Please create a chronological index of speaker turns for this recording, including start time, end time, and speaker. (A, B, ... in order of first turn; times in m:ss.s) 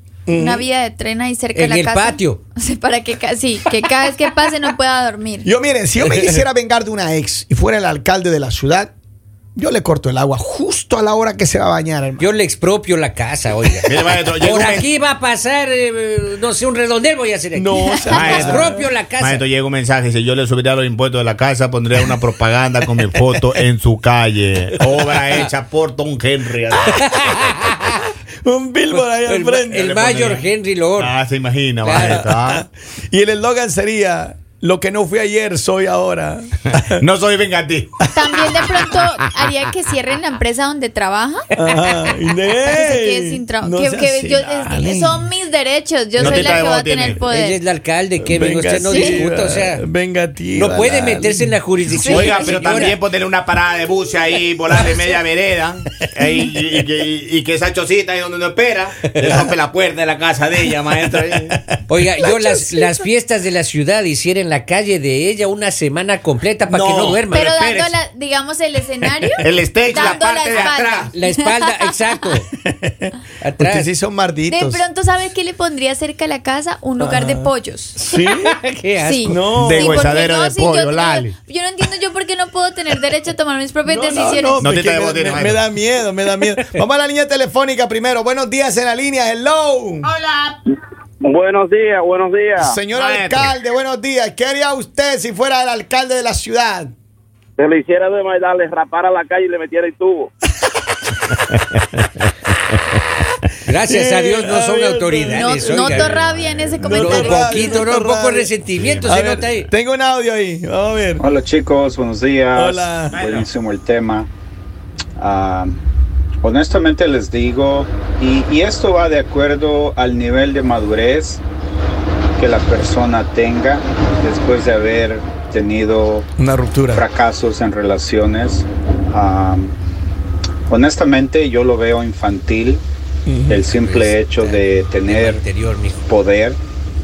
0:00.3-0:00.6 A
0:00.3-0:05.5 B
0:01.5-0:02.4 C
0:05.4-0:08.9 A
0:09.6-0:12.3 A
0:12.2-0:19.4 C
0:13.9-0:14.9 D
0:17.5-0:18.8 A
0:18.1-0:27.4 D
0:26.9-0:27.7 C
0:28.4-0:30.0 A
0:28.9-0:31.2 C
0:29.9-0:32.6 D
0:31.8-0:32.2 C
0:32.0-0:37.0 A
0:36.8-0:37.9 D
0:38.1-0:41.5 B
0:41.5-0:45.3 A
0:42.6-0:47.6 B
0:46.2-0:46.6 A
0:46.2-0:47.2 D
0:47.3-0:49.9 C
0:48.2-0:52.0 A
0:48.9-0:49.2 B
0:50.5-0:53.0 C
0:52.0-0:52.6 B
0:52.0-1:01.8 D
0:54.7-0:55.0 C
1:01.9-1:07.5 C
1:06.7-1:08.0 D
1:07.3-1:11.5 B
1:09.4-1:11.1 D
1:10.5-1:12.5 C
1:12.6-1:14.8 A
1:13.4-1:13.9 C
1:14.5-1:18.0 B
1:17.0-1:18.6 A
1:18.3-1:19.4 C
1:19.0-1:24.6 B
1:19.2-1:20.2 A
1:19.6-1:21.4 D
1:23.8-1:30.1 A
1:24.6-1:25.6 D
1:31.2-1:32.6 E
1:32.6-1:36.9 A
1:32.9-1:33.5 D
1:37.6-1:40.3 E
1:41.5-1:42.8 D
1:43.6-1:46.2 C
1:43.9-1:46.0 A
1:45.3-1:47.8 B
1:45.9-1:46.8 D
1:46.7-1:48.5 A
1:46.9-1:49.7 C
1:48.8-1:49.2 D
1:49.0-1:51.2 A
1:51.2-1:54.3 F
1:52.5-1:53.2 A
1:53.1-1:53.5 D
1:55.2-1:55.8 F
1:56.4-2:01.4 F
2:02.4-2:06.3 F
2:06.4-2:07.1 A
2:06.9-2:09.8 F
2:10.7-2:12.8 F
2:13.3-2:13.6 A
2:13.5-2:15.4 F
2:13.6-2:16.0 C
2:16.1-2:16.6 F